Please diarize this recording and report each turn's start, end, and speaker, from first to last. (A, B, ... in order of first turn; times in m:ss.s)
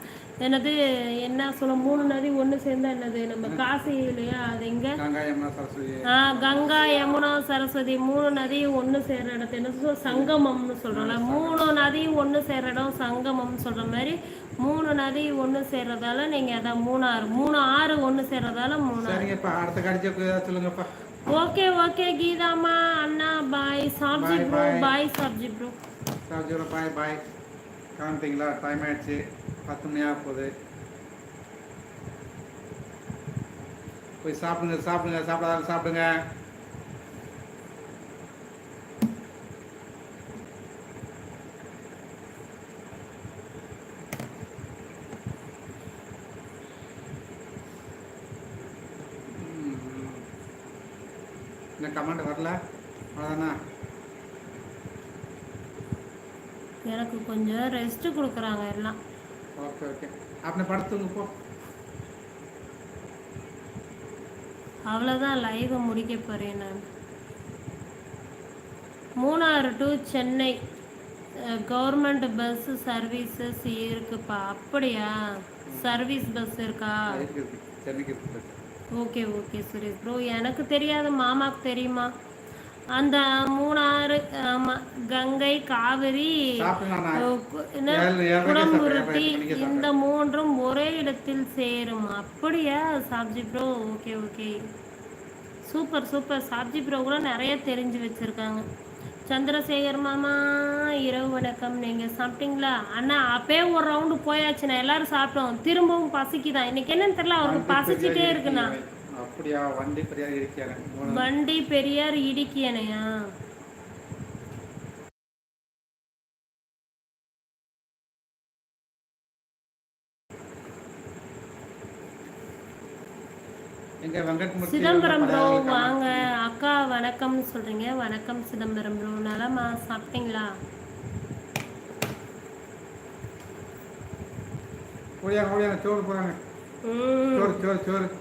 0:00.4-0:05.0 A
0:05.0-0:06.1 B
0:06.1-0:19.3 A
0:10.1-0:10.4 B
0:10.9-0:11.7 B
0:19.0-0:20.9 B
0:21.3-0:25.8 A
0:24.2-0:24.9 B
0:26.3-0:27.2 B
0:28.0-0:30.5 B
0:34.2-0:36.2 B
0:49.3-0:50.2 B
0:51.8-0:52.6 B
0:53.2-0:53.6 B
0:56.9-0:59.0 A
0:59.6-1:01.3 B
1:04.9-1:06.8 A
1:09.2-1:10.6 A
1:11.5-1:15.1 A
1:15.7-1:16.0 B
1:15.7-1:17.2 A
1:17.1-1:18.6 B
1:19.0-1:22.1 A
1:22.9-1:26.5 A
1:26.6-1:27.3 B
1:27.2-1:34.6 A
1:27.9-1:29.9 B
1:35.6-1:38.6 A
1:39.3-1:48.8 A
1:47.4-1:51.3 B
1:51.0-1:53.2 A
2:04.0-2:06.2 B
2:04.6-2:10.5 A
2:15.2-2:16.4 B
2:16.8-2:17.6 A
2:17.3-2:18.1 B